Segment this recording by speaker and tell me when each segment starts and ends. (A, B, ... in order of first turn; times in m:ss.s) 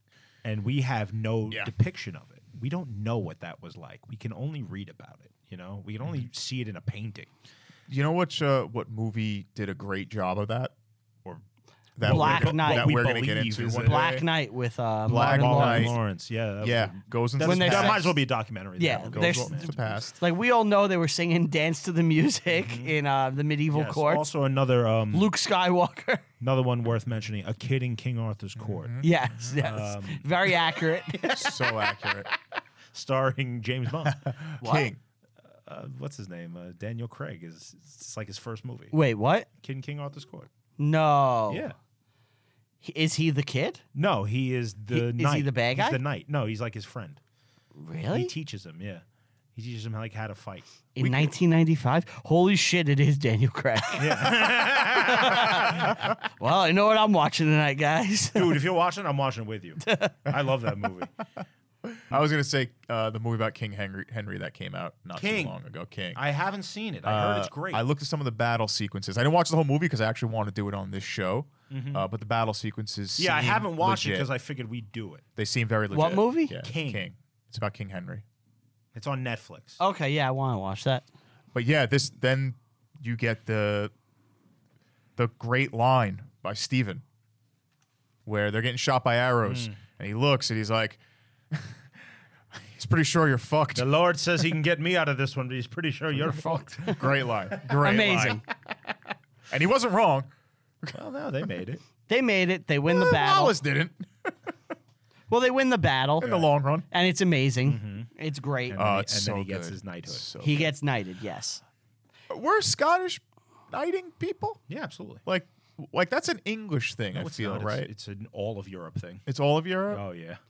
0:00.4-0:07.3 A
0:07.9-0:10.7 B
0:12.0-0:14.2 B
0:12.0-0:14.2 A
0:12.0-0:15.9 C
0:15.1-0:16.0 B
0:15.1-0:20.0 A
0:16.6-0:18.2 B
0:17.4-0:18.1 C
0:18.8-0:24.2 C
0:19.0-0:20.2 B
0:22.5-0:22.9 A
0:23.7-0:25.3 A
0:25.1-0:26.2 C
0:26.4-0:29.0 A
0:28.6-0:29.5 B
0:29.0-0:31.6 C
0:29.6-0:31.5 A
0:31.3-0:32.3 B
0:32.9-0:34.2 A
0:34.1-0:35.0 B
0:34.6-0:34.9 C
0:35.6-0:39.0 A
0:38.9-0:39.5 C
0:39.6-0:40.5 A
0:40.8-0:41.7 C
0:41.5-0:41.8 A
0:42.8-0:43.8 C
0:43.9-0:47.2 A
0:44.9-0:46.0 C
0:47.8-0:48.3 C
0:48.1-0:49.0 A
0:49.6-0:50.7 A
0:51.0-0:58.6 C
0:51.0-0:51.3 B
0:54.0-0:55.9 A
0:58.4-1:01.1 A
0:59.8-1:00.3 C
1:01.8-1:06.2 B
1:05.2-1:05.6 A
1:06.2-1:07.8 A
1:07.0-1:14.3 B
1:11.7-1:12.1 A
1:13.2-1:15.2 A
1:15.4-1:18.2 B
1:15.9-1:16.6 C
1:16.6-1:17.0 A
1:19.0-1:19.8 A
1:19.8-1:21.0 C
1:21.5-1:23.9 B
1:25.2-1:27.0 B
1:28.3-1:31.0 B
1:29.5-1:29.8 A
1:31.5-1:31.8 B
1:32.6-1:33.9 B
1:33.8-1:37.9 A
1:36.2-1:37.0 C
1:36.8-1:38.4 B
1:37.7-1:38.4 C
1:39.5-1:40.3 B
1:40.9-1:41.8 A
1:42.1-1:43.6 C
1:42.9-1:44.3 B
1:45.3-1:46.3 C
1:46.2-1:46.5 A
1:46.2-1:46.9 B
1:46.9-1:48.8 C
1:47.7-1:48.1 A
1:48.7-1:50.3 A
1:48.8-1:50.7 B
1:50.4-1:51.6 C
1:52.3-1:54.6 B
1:54.7-1:55.2 A
1:55.2-1:57.9 B
1:57.1-1:59.2 A
1:59.3-2:00.0 B
1:59.9-2:00.4 A